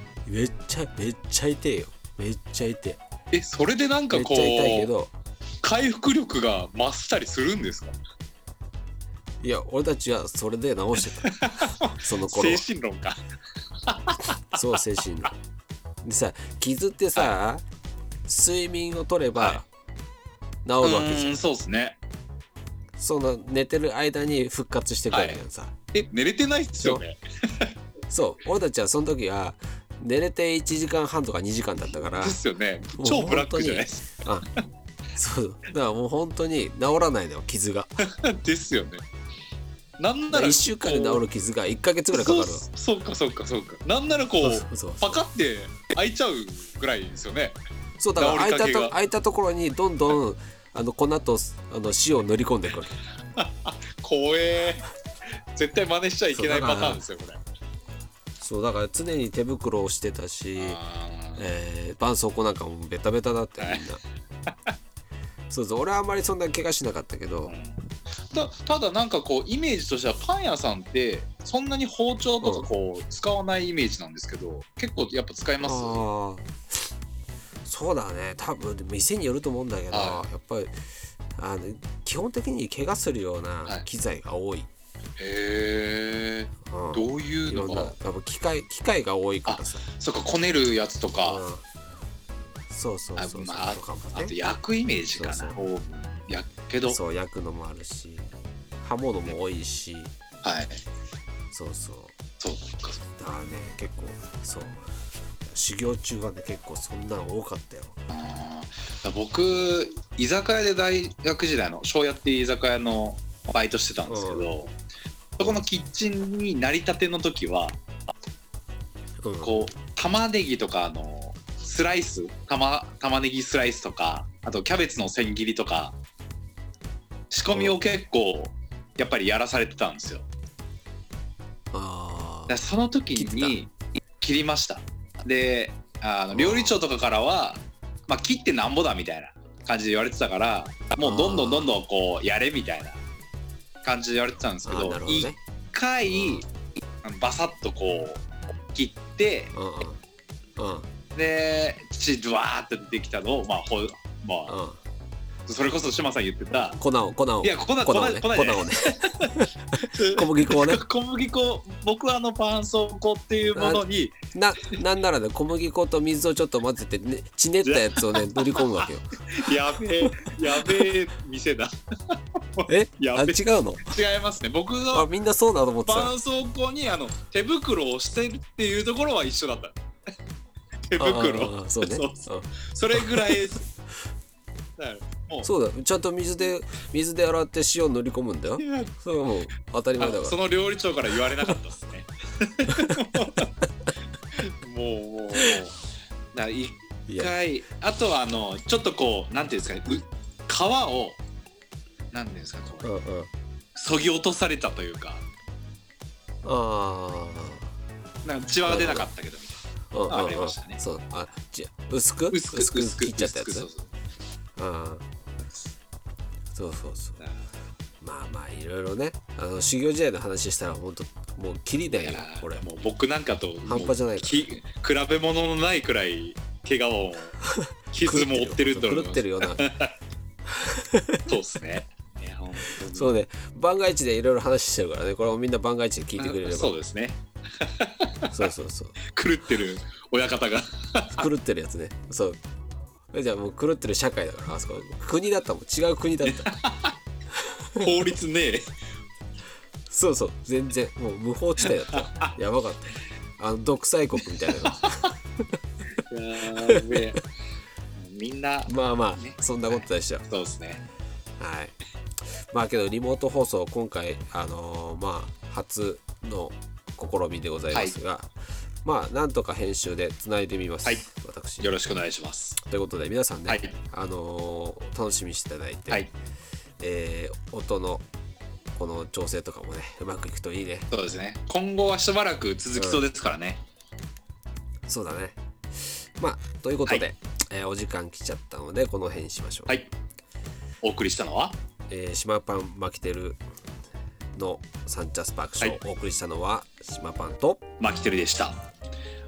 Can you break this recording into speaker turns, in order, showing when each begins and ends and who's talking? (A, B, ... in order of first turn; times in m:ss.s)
0:00.3-0:03.0 A
0:03.3-0:04.9 B
0:04.1-0:05.1 A
0:05.6-0:08.0 B
0:09.4-0:11.4 A
0:11.2-0:13.2 B
0:12.0-0:12.6 A
0:13.9-0:14.6 B
0:14.5-0:15.3 A
0:16.0-0:17.6 A
0:18.3-0:19.7 A
0:19.4-0:19.6 B
0:20.6-0:21.4 A
0:20.8-0:22.0 B
0:23.0-0:25.7 A
0:25.1-0:25.4 B
0:25.9-0:27.7 B
0:28.1-0:32.4 A
0:32.1-0:34.0 B
0:33.0-0:34.5 A
0:35.2-0:38.0 A
0:38.0-0:39.0 B
0:40.0-0:41.2 B
0:40.3-0:42.7 A
0:42.1-0:47.6 B
0:44.4-0:45.2 A
0:48.0-0:53.0 A
0:48.2-0:49.0 B
0:53.4-0:54.9 B
0:55.6-0:57.4 B
0:56.3-0:57.0 A
0:58.4-1:00.8 A
1:00.6-1:01.5 B
1:01.4-1:04.0 A
1:03.6-1:03.8 B
1:05.5-1:07.6 A
1:07.5-1:07.8 B
1:08.3-1:16.0 B
1:12.4-1:12.7 A
1:15.6-1:16.5 A
1:17.6-1:20.7 A
1:19.9-1:20.3 B
1:21.4-1:24.7 A
1:25.2-1:27.9 B
1:26.7-1:29.8 A
1:29.5-1:31.4 B
1:31.2-1:31.6 A
1:32.7-1:34.4 A
1:33.2-1:37.0 B
1:35.1-1:35.6 A
1:36.9-1:38.3 A
1:38.8-1:40.1 A
1:40.4-1:40.8 B
1:41.5-1:42.1 A
1:42.4-1:43.0 B
1:43.2-1:44.8 A
1:45.5-1:48.0 A
1:48.1-1:54.7 B
1:54.1-1:54.5 A
1:55.4-1:57.8 B
1:59.2-1:59.7 A
1:59.4-2:06.0 B
2:07.3-2:10.3 B
2:07.5-2:07.8 A
2:11.7-2:12.6 A
2:12.5-2:23.0 B
2:13.2-2:13.6 A
2:16.3-2:16.8 A
2:21.0-2:21.8 A
2:23.8-2:26.4 B
2:24.6-2:25.4 A
2:26.1-2:26.4 A
2:27.0-2:29.5 B
2:29.5-2:30.0 A
2:30.6-2:30.9 A
2:31.2-2:34.6 B
2:34.5-2:34.8 A
2:35.5-2:36.8 B
2:36.5-2:40.8 A
2:37.4-2:44.2 B
2:43.6-2:49.2 A
2:47.6-2:55.1 B
2:50.0-2:50.8 A
2:52.7-2:54.0 A
2:54.9-2:56.1 A
2:55.9-2:59.8 B
3:00.9-3:03.6 B
3:01.0-3:03.4 A
3:04.8-3:05.5 B
3:05.4-3:10.4 A
3:08.6-3:08.9 B
3:10.0-3:13.5 B
3:14.4-3:15.8 B
3:16.3-3:21.2 B
3:17.1-3:17.3 A
3:22.1-3:22.9 B
3:22.8-3:23.3 A
3:23.8-3:25.2 B
3:26.4-3:27.7 A
3:28.2-3:30.8 B
3:28.7-3:29.1 A
3:29.9-3:33.7 A
3:32.3-3:33.9 B
3:34.6-3:35.0 A
3:36.6-3:37.2 A
3:38.0-3:42.6 A
3:42.0-3:47.4 B
3:43.7-3:44.5 A
3:47.5-3:49.7 A
3:47.9-3:49.9 B
3:50.5-3:51.3 A
3:51.3-3:53.2 B
3:52.9-3:56.8 A
3:56.2-3:58.4 B
3:58.3-3:59.0 A
3:59.1-4:01.3 B
4:01.1-4:02.4 A
4:03.1-4:06.5 A
4:06.2-4:06.9 B
4:07.3-4:07.9 A
4:07.8-4:08.7 B
4:09.9-4:15.2 A
4:11.6-4:12.3 B
4:14.5-4:15.1 B
4:16.1-4:17.2 B
4:16.7-4:17.0 A
4:18.0-4:20.8 B
4:18.7-4:20.2 A
4:21.4-4:21.8 A
4:22.5-4:28.3 A
4:28.8-4:32.0 A
4:31.6-4:32.6 B
4:32.6-4:36.1 A
4:33.5-4:33.8 B
4:36.8-4:38.0 A
4:38.8-4:40.9 A
4:40.9-4:43.6 B
4:42.8-4:43.1 A
4:44.9-4:49.8 A
4:50.8-4:51.6 B
4:51.9-4:53.4 A
4:54.4-4:57.6 A
4:57.8-4:58.6 B